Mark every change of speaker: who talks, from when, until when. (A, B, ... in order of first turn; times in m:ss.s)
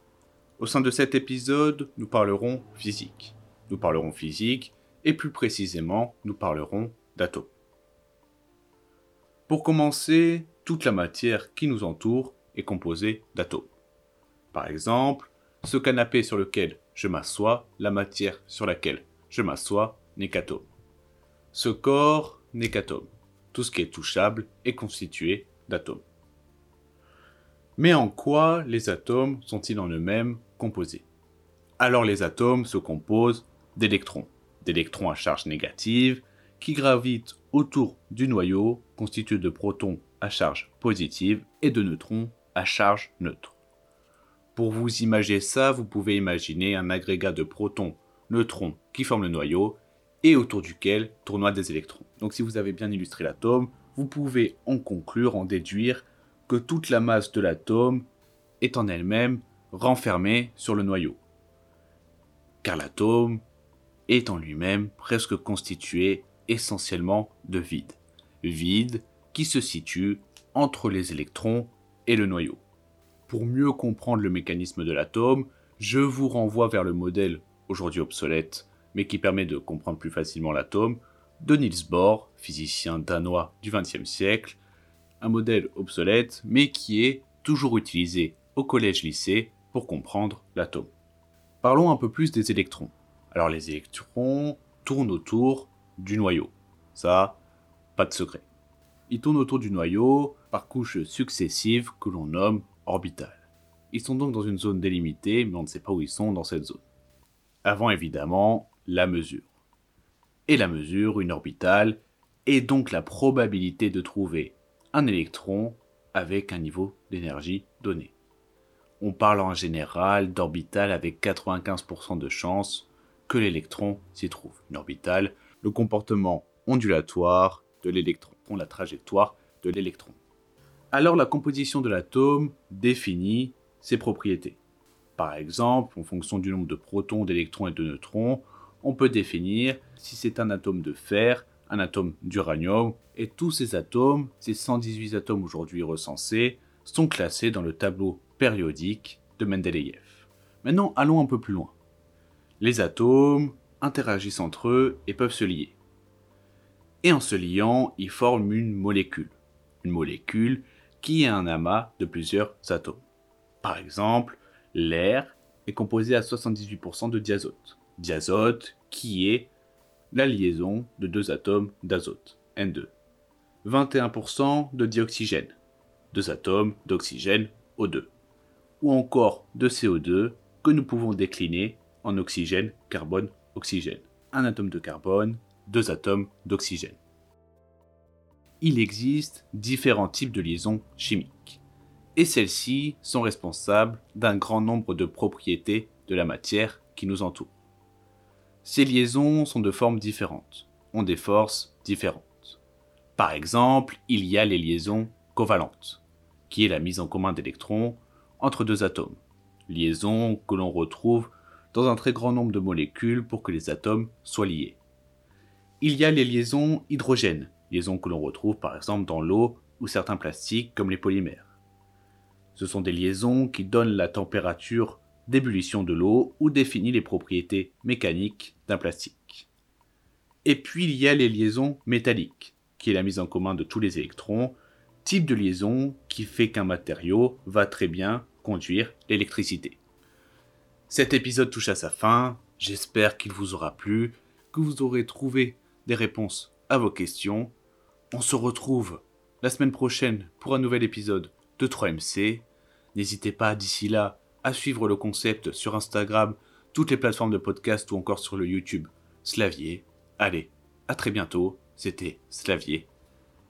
0:00.6-0:07.5 A
0:09.5-0:13.7 A
0:14.5-0:20.7 A
0:21.5-0:26.0 A
0:27.8-0:31.1 A
0:31.8-0:43.6 A
0:44.6-0:58.0 A
0:58.6-1:01.2 A
1:02.6-1:03.4 A
1:04.1-1:12.6 A
1:13.3-1:24.6 A
1:25.2-1:30.9 A
1:31.6-1:37.4 A
1:38.0-1:38.4 A
1:39.1-1:46.8 A
1:47.6-1:49.5 A
1:50.5-1:58.1 A
1:59.0-2:10.2 A
2:10.9-2:14.6 A
2:15.2-2:31.8 A
2:32.6-2:35.8 A
2:37.0-2:43.0 A
2:43.6-2:49.5 A
2:50.1-2:52.9 A
2:53.6-2:55.6 A
2:56.1-2:58.1 A
2:58.8-3:07.0 A
3:08.6-3:11.6 A
3:12.2-3:17.5 A
3:18.6-3:22.6 A
3:23.2-3:34.8 A
3:35.8-3:41.5 A
3:42.6-3:49.5 A
3:50.4-3:59.8 A
4:00.9-4:07.5 A
4:08.1-4:22.9 A